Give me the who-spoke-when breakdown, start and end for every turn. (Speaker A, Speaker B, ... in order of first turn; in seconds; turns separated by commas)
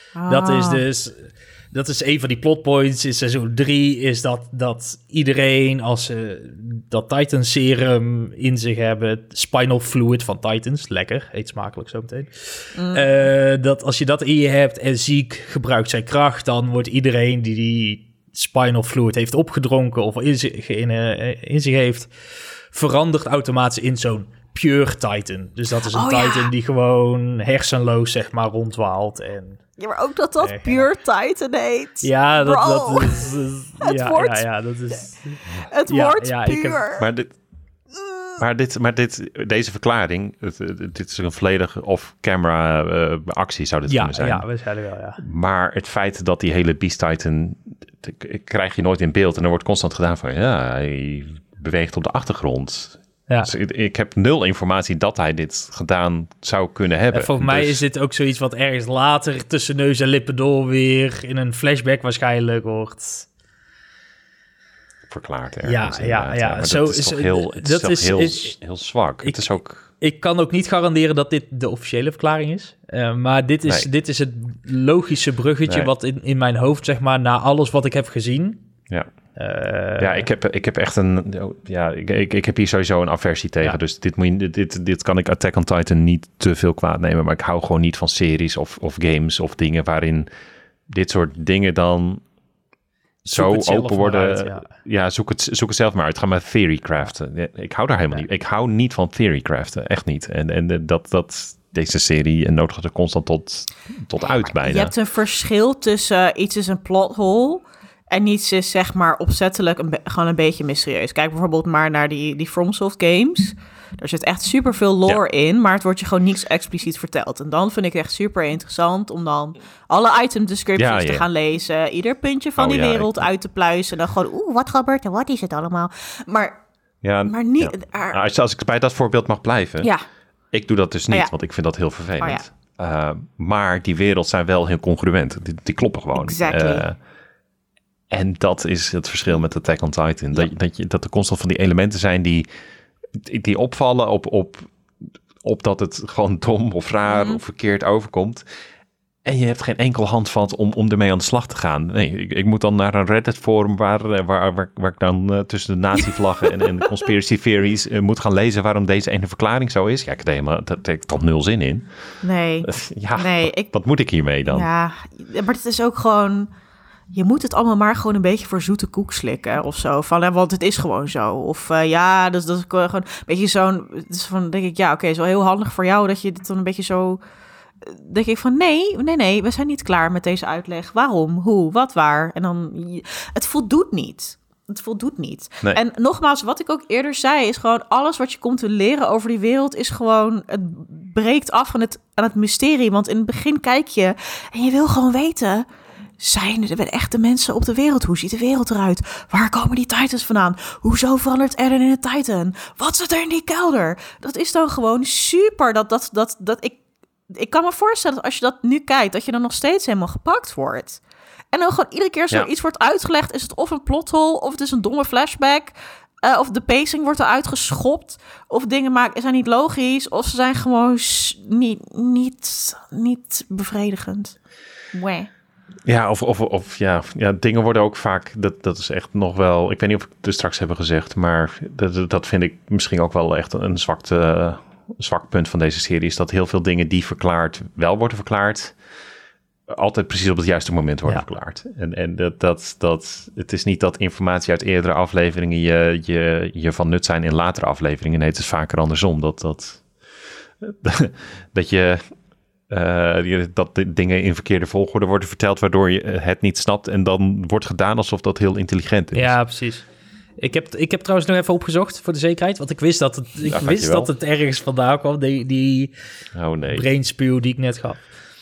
Speaker A: 0.1-0.8, Speaker B: 0.3-22.1, Speaker A: 12.8-13.1, Speaker B: 22.7-29.6, Speaker A: 25.9-26.5, Speaker A: 29.8-34.5, Speaker B: 30.4-30.9, Speaker B: 32.0-36.8, Speaker A: 35.7-37.1, Speaker C: 37.0-37.4, Speaker A: 37.9-38.4, Speaker C: 38.4-44.5, Speaker B: 43.9-45.2, Speaker C: 45.2-57.8, Speaker B: 57.1-63.3, Speaker C: 65.1-69.9, Speaker B: 65.6-68.6, Speaker B: 69.2-78.6, Speaker B: 79.4-80.3, Speaker C: 80.0-90.3, Speaker C: 90.9-92.2, Speaker C: 93.2-104.9, Speaker B: 93.3-94.7, Speaker A: 104.6-126.6, Speaker C: 120.8-121.3, Speaker C: 122.6-123.3, Speaker C: 127.0-129.9, Speaker A: 127.3-128.2, Speaker C: 130.5-137.0, Speaker A: 132.2-132.4, Speaker A: 136.2-136.8, Speaker C: 138.1-142.5, Speaker C: 143.1-148.4, Speaker A: 147.1-147.4, Speaker C: 149.2-161.9, Speaker A: 156.5-156.9, Speaker A: 162.2-163.7, Speaker C: 162.6-164.7, Speaker A: 164.5-166.5, Speaker A: 167.1-177.2, Speaker A: 177.8-195.7, Speaker A: 196.2-211.0, Speaker A: 211.5-224.4, Speaker A: 224.9-225.3, Speaker C: 225.9-238.8, Speaker C: 239.7-252.1, Speaker C: 252.7-259.4, Speaker B: 259.1-259.9, Speaker B: 260.4-265.9, Speaker C: 263.5-264.1, Speaker C: 266.4-266.9, Speaker B: 266.7-268.1